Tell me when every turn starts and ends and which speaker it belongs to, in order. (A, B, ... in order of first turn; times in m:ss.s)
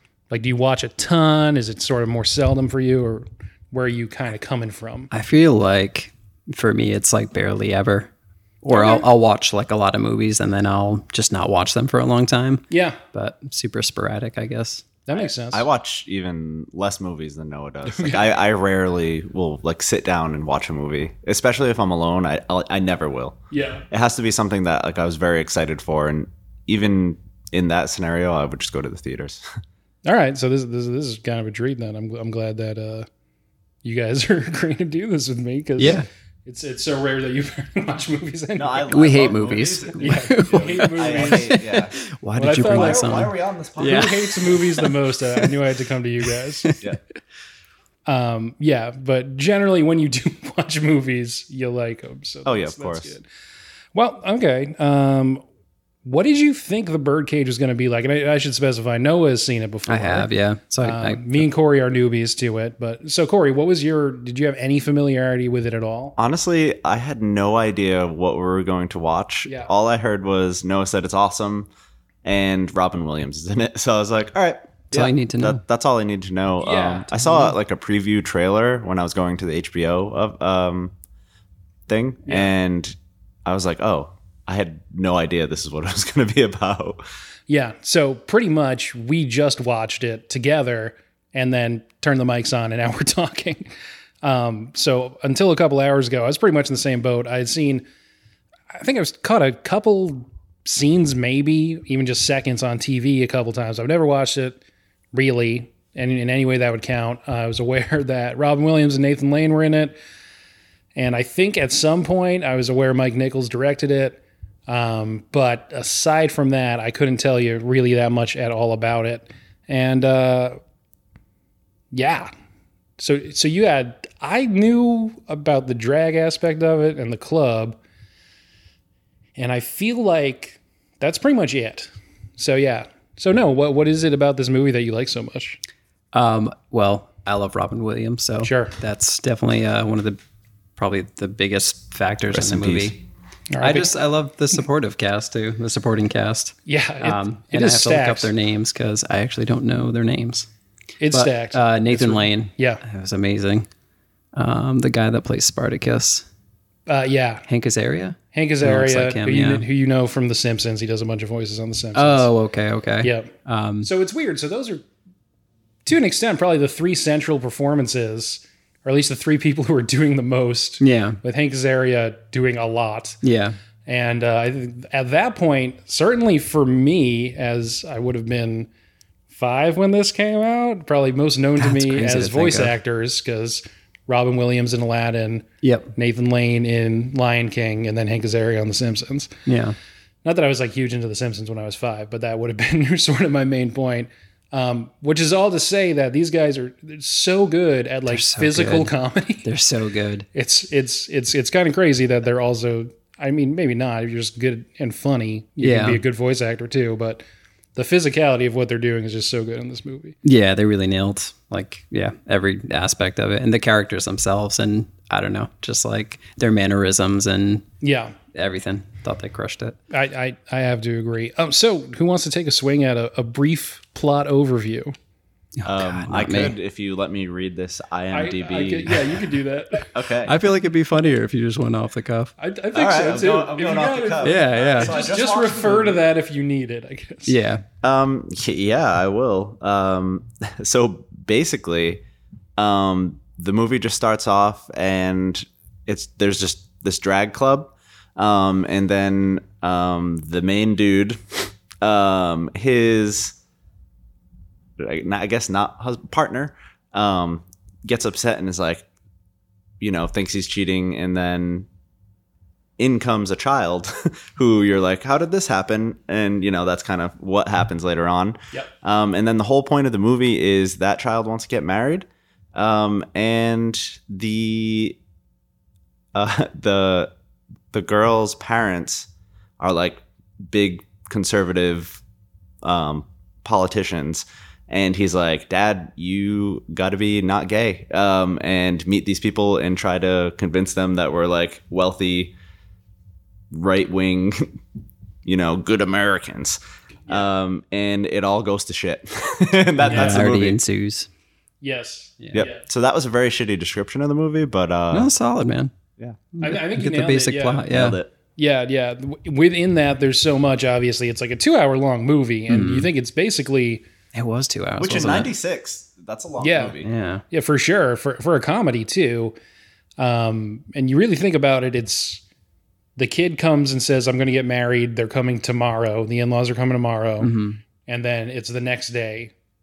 0:00.3-0:05.1 A
0:05.1-0:08.1 B
0:08.6-0:14.8 B
0:08.7-0:09.1 A
0:12.7-0:13.0 A
0:15.1-0:15.7 A
0:15.1-0:23.4 C
0:17.9-0:18.2 A
0:23.5-0:23.9 A
0:23.9-0:29.4 C
0:30.1-0:33.1 A
0:33.8-0:39.0 A
0:35.8-0:36.0 B
0:38.6-0:42.0 C
0:38.9-0:45.5 B
0:40.0-0:41.6 A
0:42.3-0:43.3 A
0:42.5-0:44.3 C
0:43.8-0:46.8 A
0:48.1-0:53.3 A
0:52.4-0:53.1 C
0:54.0-0:55.4 A
0:56.0-1:00.3 A
0:59.9-1:01.5 B
1:00.8-1:06.2 A
1:06.2-1:11.7 C
1:09.4-1:09.7 A
1:12.2-1:20.9 C
1:14.9-1:15.6 B
1:16.6-1:17.4 A
1:21.9-1:27.0 C
1:27.5-1:33.7 A
1:34.2-1:37.8 A
1:38.7-1:44.6 A
1:45.1-1:50.0 A
1:51.0-2:00.6 A
2:01.9-2:02.3 A
2:03.0-2:07.8 A
2:09.4-2:15.6 A
2:16.1-2:20.2 B
2:18.4-2:18.8 A
2:20.8-2:23.0 B
2:22.3-2:23.0 C
2:23.5-2:23.9 A
2:23.6-2:30.5 B
2:26.7-2:28.3 A
2:31.0-2:32.8 A
2:31.1-2:33.7 B
2:34.3-2:36.3 B
2:36.9-2:37.5 A
2:37.5-2:39.6 B
2:38.3-2:42.3 A
2:42.0-2:43.9 B
2:43.0-2:44.8 A
2:45.8-2:53.2 A
2:50.8-2:51.2 B
2:53.2-2:53.6 B
2:53.8-2:58.7 A
2:59.3-3:09.4 A
3:01.6-3:02.8 B
3:05.6-3:05.9 B
3:09.5-3:09.8 B
3:10.2-3:19.5 A
3:18.1-3:18.9 B
3:19.4-3:20.3 B
3:20.3-3:27.2 A
3:25.6-3:26.0 B
3:27.8-3:30.2 A
3:30.2-3:37.7 B
3:37.8-3:38.2 A
3:38.3-3:39.8 B
3:39.9-3:44.9 A
3:45.6-3:46.5 B
3:45.6-3:49.2 C
3:48.1-3:50.0 A
3:49.9-3:50.4 C
3:50.2-3:52.3 B
3:52.4-3:57.4 A
3:52.7-3:56.0 C
3:54.2-3:54.9 B
3:57.3-3:57.6 B
3:57.8-4:02.0 C
4:02.6-4:13.4 C
4:14.8-4:18.8 C
4:19.8-4:21.7 C
4:22.8-4:35.0 C
4:36.1-4:37.1 C
4:37.7-4:39.1 C
4:39.6-4:42.0 C
4:42.6-4:52.4 C
4:53.5-4:54.6 C
4:55.2-5:00.6 C
4:59.8-5:00.3 A
4:59.9-5:01.1 B
5:01.6-5:02.6 A
5:02.3-5:05.1 C
5:04.9-5:05.7 B
5:06.3-5:08.0 B
5:06.4-5:07.7 A
5:07.7-5:08.1 C
5:08.4-5:13.8 A
5:12.5-5:12.9 B
5:14.1-5:15.3 B
5:14.8-5:16.9 C
5:16.4-5:16.8 A
5:16.8-5:17.2 B
5:17.3-5:19.3 A
5:20.0-5:22.2 A
5:23.0-5:27.3 A
5:27.2-5:27.6 B
5:27.9-5:29.3 A